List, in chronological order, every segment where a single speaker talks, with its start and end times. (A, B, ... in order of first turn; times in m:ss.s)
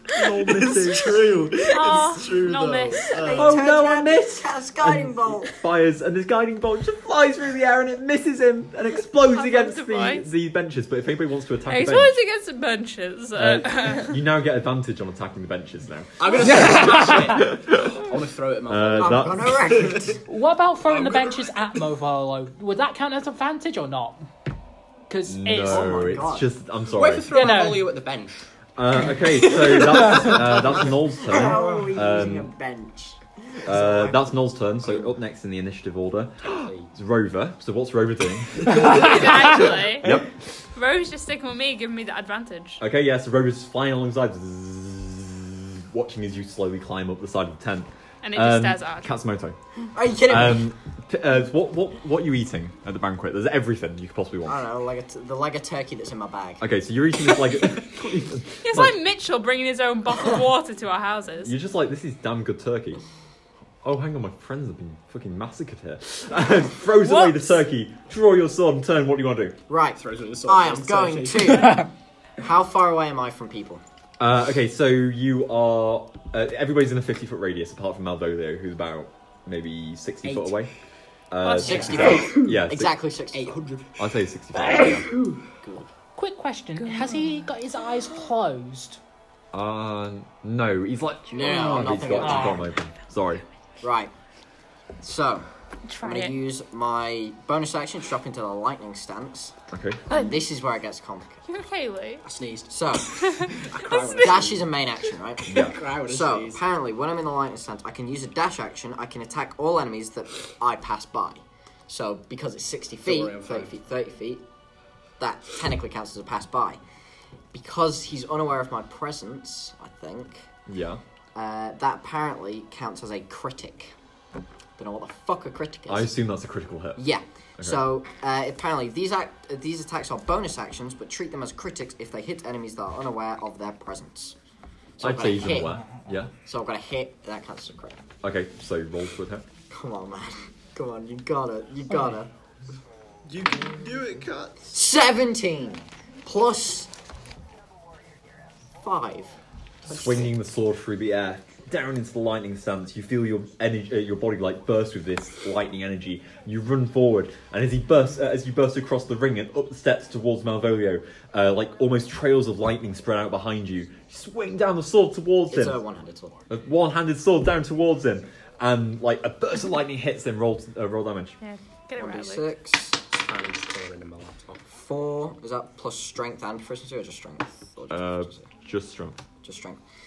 0:00.2-0:01.4 A
0:00.3-0:03.6 B
0:01.7-0:03.2 C
0:03.1-0:05.6 D
0:03.3-0:12.2 A
0:09.3-0:10.3 C
0:11.7-0:14.2 C
0:13.4-0:17.9 A
0:16.2-0:19.6 E
0:16.4-0:17.5 F
0:18.7-0:19.7 A
0:19.0-0:20.2 D
0:20.3-0:24.3 F
0:20.9-0:21.5 B
0:25.1-0:26.1 F
0:25.3-0:27.3 A
0:25.6-0:26.5 D
0:26.9-0:28.5 E
0:27.3-0:27.9 F
0:28.8-0:32.5 A
0:29.2-0:30.8 E
0:31.3-0:34.5 D
0:33.6-0:40.3 A
0:36.4-0:36.9 E
0:38.8-0:40.2 C
0:40.7-0:42.8 C
0:42.8-0:49.6 A
0:48.2-0:49.1 C
0:49.9-0:50.7 D
0:50.2-0:54.6 A
0:54.4-0:56.7 D
0:56.6-0:59.0 A
0:58.6-1:01.6 C
1:01.4-1:03.0 A
1:03.8-1:09.6 A
1:07.0-1:07.6 C
1:09.7-1:11.9 D
1:10.0-1:11.8 E
1:12.4-1:13.8 D
1:14.2-1:20.7 A
1:20.2-1:20.6 E
1:21.3-1:23.0 A
1:21.5-1:23.6 D
1:21.6-1:22.5 E
1:21.7-1:22.2 F
1:23.3-1:25.4 E
1:24.0-1:25.1 A
1:26.2-1:29.0 F
1:29.5-1:33.4 A
1:31.3-1:32.7 D
1:31.9-1:32.3 E
1:32.2-1:32.6 F
1:33.8-1:34.1 D
1:35.0-1:35.5 D
1:35.9-1:36.4 C
1:36.0-1:39.6 D
1:39.7-1:40.0 A
1:40.1-1:41.4 D
1:40.1-1:40.4 C
1:41.4-1:42.2 C
1:42.2-1:44.8 E
1:42.7-1:43.2 D
1:43.2-1:43.5 C
1:44.1-1:54.4 D
1:45.5-1:45.8 A
1:45.5-1:46.6 E
1:53.0-1:53.7 E
1:55.2-1:56.8 D
1:57.5-2:00.5 D
2:00.7-2:01.0 A
2:01.3-2:03.9 D
2:04.8-2:06.1 D
2:05.9-2:07.1 A
2:07.0-2:14.4 D
2:15.0-2:15.9 D
2:15.0-2:16.3 A
2:16.4-2:18.0 D
2:18.2-2:19.4 A
2:19.7-2:22.3 D
2:23.3-2:24.7 B
2:24.7-2:26.9 D
2:28.8-2:30.4 D
2:29.9-2:45.8 A
2:45.5-2:46.4 D
2:46.5-2:51.4 A
2:51.4-2:52.5 C
2:52.0-2:53.0 D
2:53.1-2:54.6 E
2:54.7-2:58.1 D
2:57.9-2:59.2 A
2:59.4-2:59.8 D